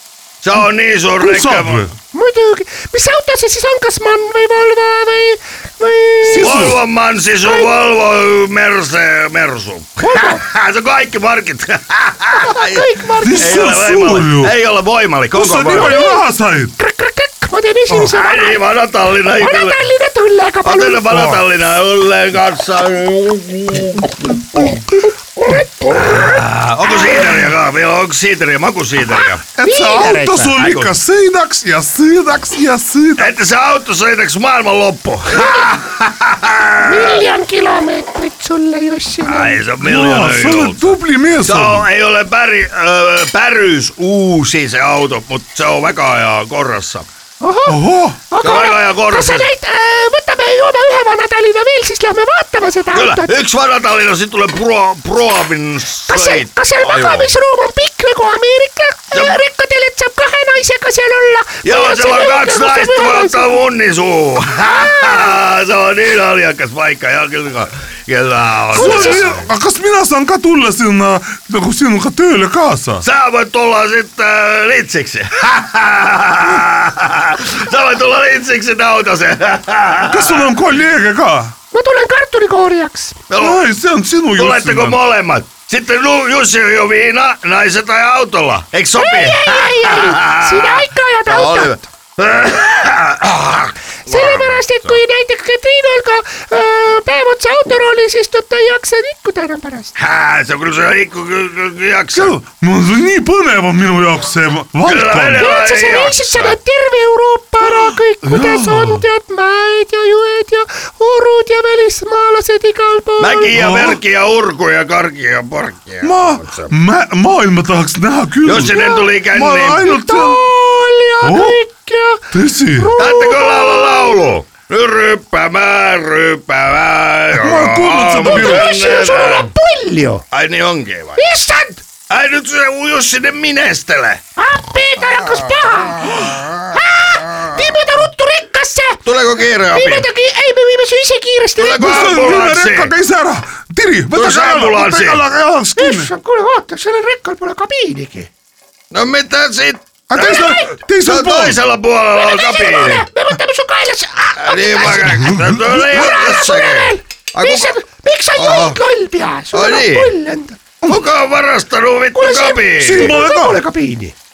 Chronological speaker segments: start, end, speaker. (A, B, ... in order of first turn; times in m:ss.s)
0:00.4-0:01.9 A
0:01.2-0:01.9 B
0:02.1-0:06.8 C
0:06.2-0:06.8 B
0:06.4-0:16.0 A
0:07.4-0:07.7 C
0:10.0-0:10.4 C
0:12.3-0:13.6 C
0:13.2-0:14.5 B
0:15.3-0:16.7 B
0:15.8-0:16.2 C
0:16.8-0:18.6 C
0:18.1-0:19.8 A
0:19.4-0:21.1 C
0:20.6-0:24.8 A
0:21.1-0:21.4 B
0:25.4-0:27.3 C
0:25.9-0:29.4 A
0:29.5-0:33.3 B
0:29.6-0:30.5 C
0:30.6-0:30.9 A
0:33.2-0:37.2 A
0:35.3-0:35.7 C
0:36.8-0:39.6 C
0:39.2-0:47.1 A
0:39.8-0:41.9 B
0:47.4-0:47.8 C
0:47.6-0:48.2 B
0:48.3-0:53.3 C
0:48.4-0:49.5 A
0:52.9-0:57.3 A
0:56.1-1:03.6 C
0:59.1-0:59.4 A
1:01.6-1:09.4 A
1:04.6-1:05.4 C
1:08.7-1:09.2 C
1:08.7-1:13.0 B
1:13.0-1:20.5 A
1:20.0-1:21.5 B
1:21.7-1:23.2 C
1:23.3-1:23.6 A
1:23.4-1:25.0 B
1:24.4-1:35.0 A
1:29.0-1:31.8 C
1:34.0-1:39.9 C
1:40.0-1:42.3 A
1:42.1-1:45.5 B
1:44.8-1:46.6 A
1:45.4-1:53.5 C
1:47.6-1:49.0 B
1:53.2-1:56.7 A
1:53.5-1:54.0 B
1:56.0-2:00.4 B
1:58.4-1:59.9 A
1:58.7-1:59.1 C
1:59.8-2:04.3 C
2:01.2-2:01.6 B
2:02.3-2:02.9 B
2:03.0-2:09.5 A
2:07.3-2:08.7 B
2:08.2-2:10.2 C
2:10.3-2:11.2 A
2:11.2-2:11.8 C
2:12.1-2:14.2 A
2:14.4-2:16.1 C
2:16.0-2:16.8 A
2:16.7-2:19.0 C
2:17.3-2:17.6 A
2:19.0-2:20.1 A
2:19.7-2:22.2 C
2:21.6-2:22.9 A
2:21.8-2:26.1 B
2:24.1-2:25.2 A
2:25.7-2:28.3 C
2:28.9-2:30.5 A
2:30.1-2:31.6 B
2:30.2-2:30.7 C
2:31.0-2:33.0 A
2:32.1-2:40.6 C
2:34.4-2:37.7 A
2:35.0-2:36.0 B
2:38.4-2:38.8 A
2:39.5-2:40.1 A
2:40.8-2:43.2 A
2:42.1-2:44.1 C
2:42.8-2:43.6 B